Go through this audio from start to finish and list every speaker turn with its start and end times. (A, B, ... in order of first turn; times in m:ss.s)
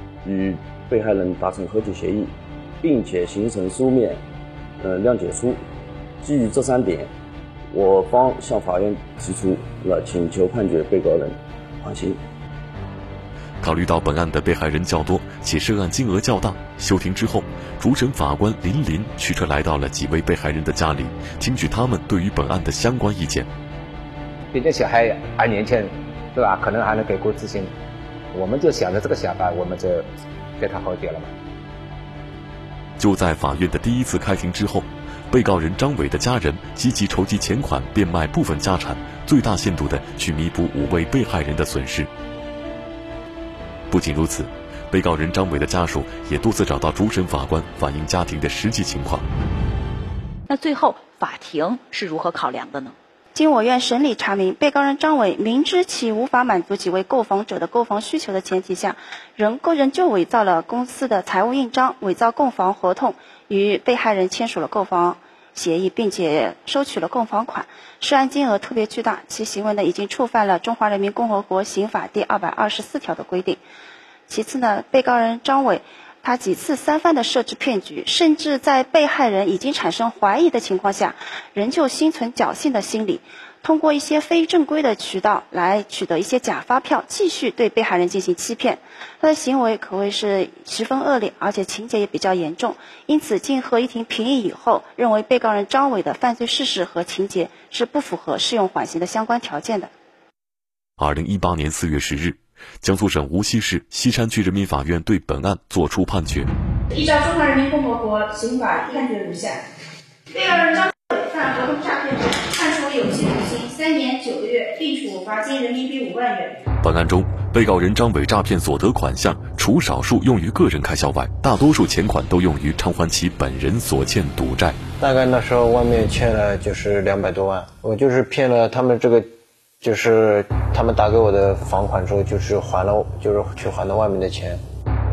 0:00.2-0:04.2 A
0:04.8-0:05.6 A
0:06.2-0:07.1 A
0:07.7-0:12.2 A
0:13.6-0:23.5 B
0:24.5-0:27.7 C
0:28.3-0:30.1 C
0:30.6-0:31.3 C
0:33.0-0:42.1 B
0:43.9-0:49.2 B
0:50.5-0:53.0 D
0:53.3-1:13.6 E
1:14.3-1:39.9 E
1:41.0-1:46.5 B
1:47.0-1:49.5 F
1:54.3-1:55.4 F
1:56.8-2:04.8 B
2:05.0-2:14.6 G